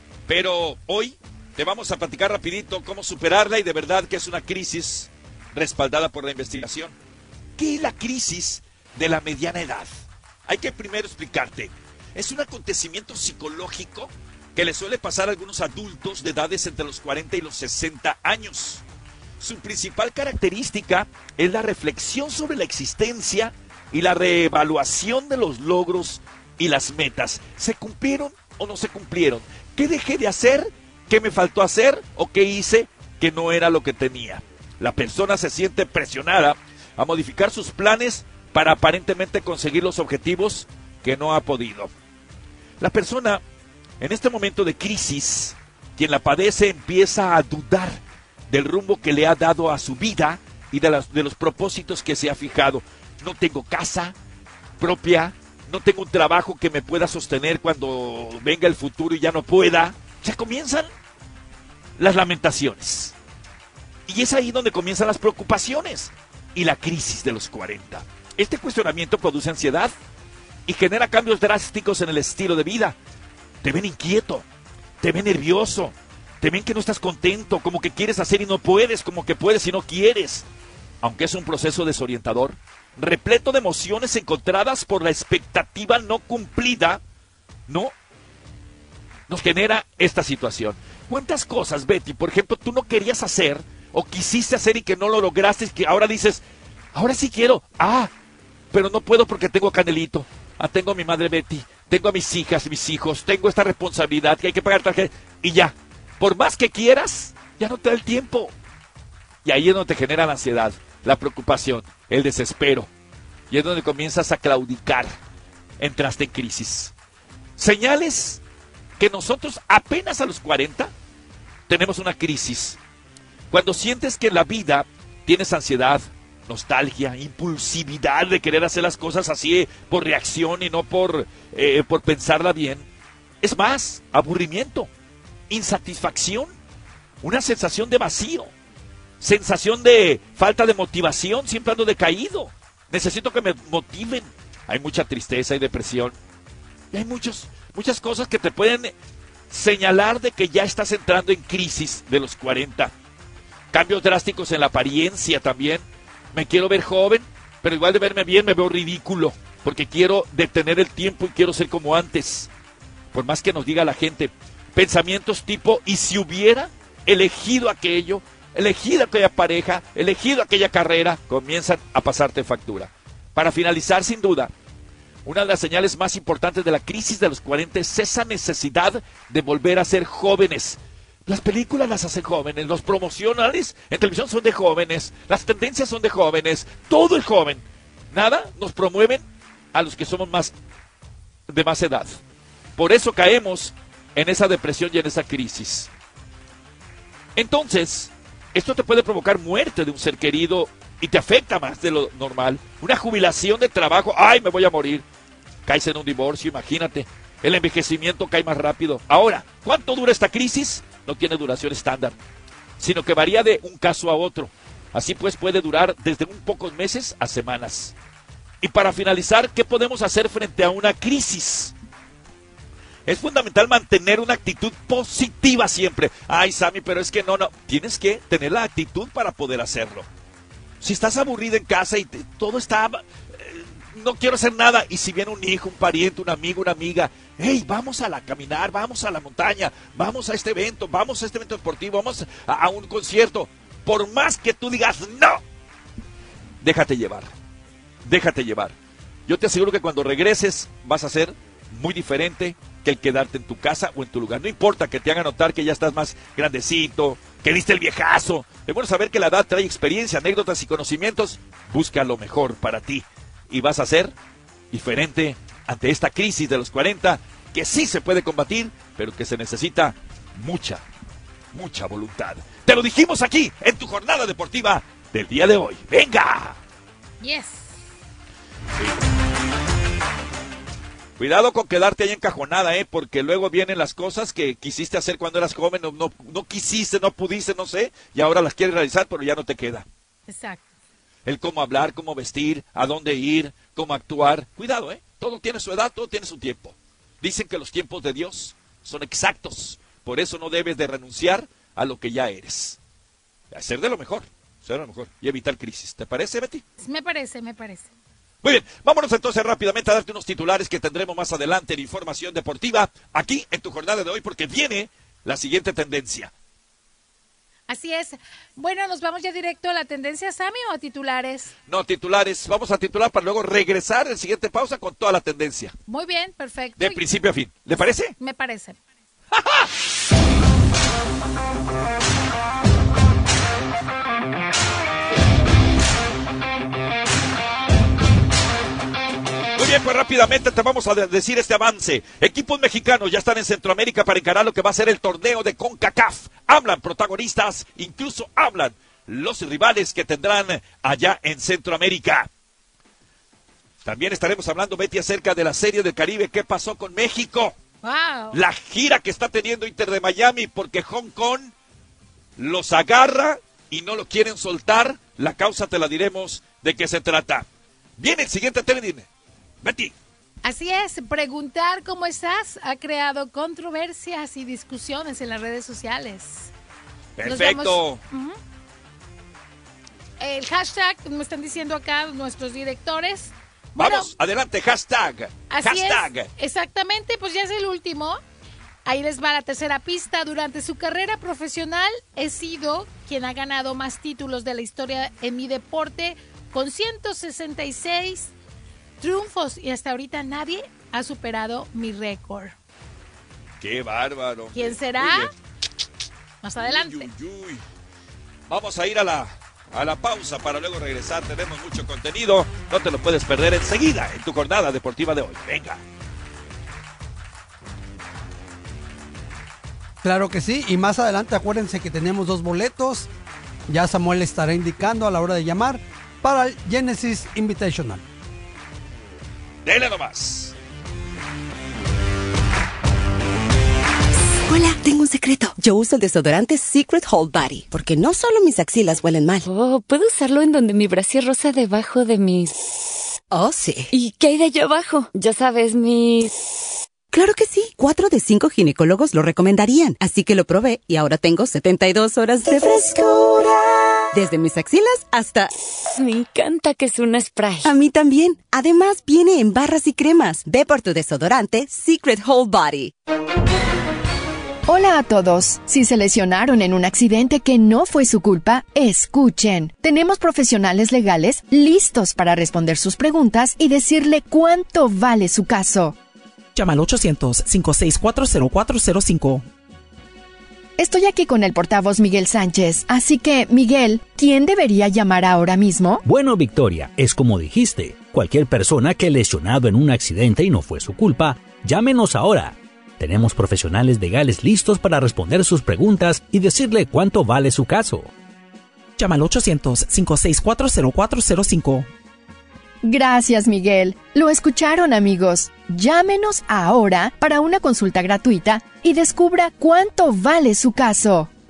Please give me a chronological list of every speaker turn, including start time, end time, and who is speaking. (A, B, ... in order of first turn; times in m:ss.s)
0:00.3-0:06.9 A
0:07.6-0:18.8 A
0:19.4-0:41.9 A
0:42.8-0:43.4 A
0:44.0-0:48.0 A
0:48.5-0:54.1 A
0:54.8-1:00.9 A
1:02.0-1:03.1 A
1:04.1-1:09.9 A
1:10.7-1:13.0 A
1:13.6-1:14.4 A
1:15.0-1:20.4 A
1:21.0-1:27.0 A
1:27.7-1:27.9 A
1:29.3-1:36.4 A
1:36.9-1:38.1 A
1:38.7-1:48.5 A
1:49.4-1:52.9 A
1:53.5-1:55.2 A
1:55.8-1:56.9 A
1:57.6-1:58.4 A
1:59.0-2:00.9 A
2:01.7-2:02.8 A
2:03.5-2:12.8 A
2:13.4-2:14.9 A
2:15.5-2:16.5 A
2:17.2-2:18.5 A
2:19.2-2:26.2 A
2:26.9-2:28.9 A
2:29.5-2:32.9 A
2:33.7-2:42.5 A
2:43.1-2:54.5 A
2:55.2-3:09.2 A
3:09.7-3:10.5 A
3:11.5-3:12.2 A
3:12.8-3:15.9 A
3:17.4-3:25.0 A
3:25.6-3:32.2 A
3:32.8-3:37.9 A
3:38.6-3:41.7 A
3:43.1-3:50.1 A
3:50.8-4:05.4 A
4:06.6-4:07.3 A
4:08.0-4:08.7 A
4:09.3-4:24.1 A
4:24.7-4:30.8 A
4:31.5-4:36.6 A
4:37.2-4:37.8 B
4:41.2-4:49.8 A
4:50.3-4:50.6 B
4:51.2-5:02.8 A
5:03.5-5:06.6 A
5:06.8-5:07.9 B
5:08.4-5:16.3 A
5:17.7-5:21.5 B
5:21.7-5:25.7 A
5:25.9-5:27.0 B
5:26.8-5:28.1 A
5:28.2-5:28.8 B
5:29.3-5:29.7 A
5:39.6-5:52.3 A
5:53.8-5:57.6 A
5:57.8-5:58.4 B
5:58.3-6:01.5 A
6:02.4-6:07.5 A
6:08.0-6:09.1 A
6:09.6-6:09.9 A
6:10.4-6:16.5 B
6:17.2-6:18.0 A
6:17.2-6:18.3 B
6:20.2-6:24.1 B
6:23.8-6:26.3 A
6:25.5-6:28.2 B
6:28.8-6:38.3 B
6:39.0-6:42.5 B
6:43.6-6:45.3 A
6:44.5-6:45.3 B
6:46.4-6:47.1 B
6:46.6-6:47.6 A
6:48.5-6:55.8 A
7:00.0-7:03.1 C
7:03.7-7:08.0 C
7:09.6-7:10.5 A
7:19.5-7:22.5 D
7:23.9-7:26.3 D
7:27.2-7:33.0 E
7:34.2-7:35.4 E
7:36.0-7:37.7 D
7:38.6-7:42.8 E
7:44.7-7:56.0 F
7:56.5-7:59.4 G
8:00.8-8:06.0 F
8:06.1-8:18.1 H
8:19.0-8:21.9 G
8:22.8-8:31.3 F